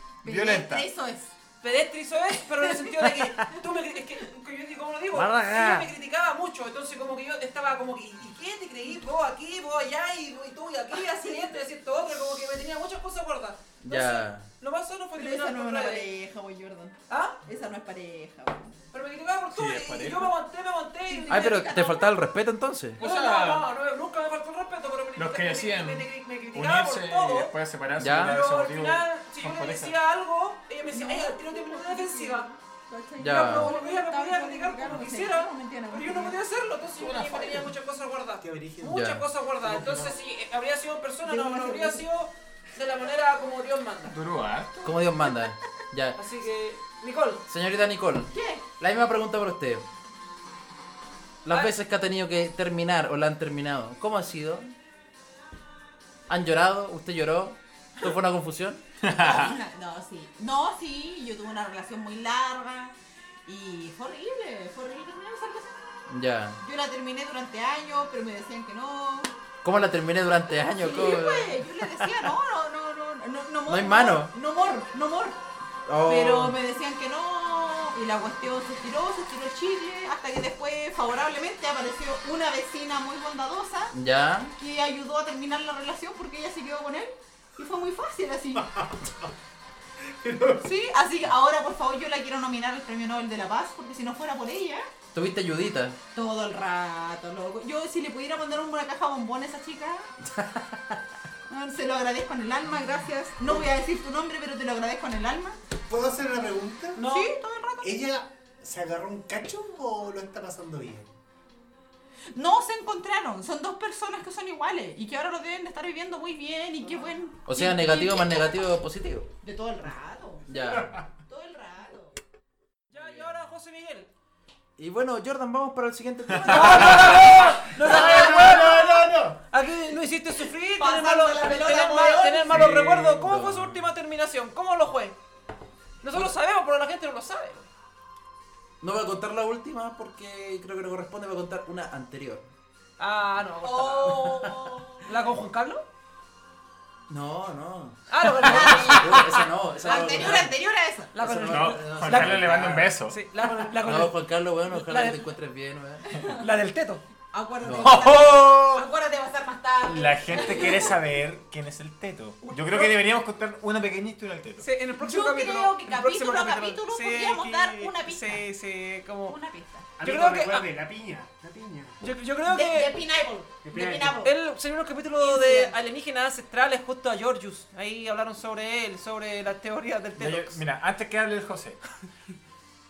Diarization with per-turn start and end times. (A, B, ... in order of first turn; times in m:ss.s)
0:00.2-0:01.3 A
0:00.2-0:00.9 B
0:01.6-0:16.1 C
0:02.6-0:03.5 A
0:05.1-0:05.9 D
0:11.0-0:11.4 A
0:13.8-0:14.5 D
0:15.1-0:18.7 A
0:17.1-0:17.4 C
0:18.9-0:21.6 C
0:19.5-0:20.3 B
0:21.1-0:22.1 A
0:21.3-0:23.0 D
0:23.0-0:23.6 B
0:23.0-0:27.6 C
0:25.2-0:30.0 B
0:28.0-0:28.4 D
0:28.1-0:32.5 C
0:30.9-0:36.4 A
0:33.2-0:33.8 D
0:33.2-0:44.2 C
0:36.9-0:37.7 B
0:38.4-0:39.0 E
0:38.8-0:39.2 D
0:39.6-0:40.1 B
0:41.2-0:42.0 A
0:44.0-0:45.0 B
0:44.8-0:46.2 D
0:46.2-0:47.4 C
0:47.5-0:49.9 D
0:48.3-0:48.6 A
0:51.4-0:54.7 D
0:51.5-0:51.7 C
0:56.3-0:58.8 D
0:59.0-0:59.6 B
0:59.1-1:02.9 A
1:03.4-1:06.1 A
1:06.1-1:06.6 D
1:06.6-1:09.3 A
1:09.6-1:11.6 D
1:10.7-1:15.4 A
1:13.7-1:14.3 D
1:15.9-1:16.6 D
1:16.0-1:23.9 A
1:23.9-1:24.5 D
1:24.6-1:28.7 A
1:28.6-1:29.3 E
1:30.0-1:30.7 E
1:30.6-1:34.8 A
1:35.1-1:36.0 D
1:36.1-1:40.1 A
1:40.3-1:41.0 D
1:41.5-1:45.6 A
1:45.9-1:47.0 E
1:47.0-1:47.4 C
1:47.0-1:47.9 A
1:47.8-1:51.1 E
1:52.3-1:58.7 A
1:57.4-1:59.3 D
1:59.4-2:02.2 A
2:00.5-2:00.9 D
2:00.8-2:01.0 E
2:02.9-2:04.1 C
2:03.0-2:03.3 D
2:04.8-2:07.3 D
2:06.3-2:07.2 B
2:06.4-2:15.2 C
2:07.8-2:09.4 E
2:08.0-2:08.7 A
2:10.8-2:12.6 A
2:12.5-2:13.8 D
2:16.0-2:17.7 C
2:18.8-2:22.5 D
2:23.0-2:24.5 C
2:23.6-2:25.1 A
2:25.0-2:25.8 C
2:27.1-2:30.6 D
2:28.1-2:30.5 C
2:28.4-2:31.1 A
2:31.1-2:35.3 C
2:31.1-2:33.0 D
2:31.5-2:33.2 B
2:33.8-2:36.2 D
2:36.0-2:36.4 A
2:36.3-2:37.0 C
2:37.3-2:41.0 A
2:37.6-2:38.0 D
2:37.8-2:38.9 B
2:39.8-2:44.7 B
2:42.4-2:42.9 C
2:44.6-2:49.4 C
2:45.0-2:48.4 A
2:49.2-2:49.9 A
2:50.0-2:52.0 E
2:50.0-2:50.7 C
2:52.0-2:53.0 C
2:52.4-2:54.3 A
2:53.6-2:54.2 E
2:54.2-3:00.6 C
2:55.2-2:55.7 A
3:00.2-3:01.8 B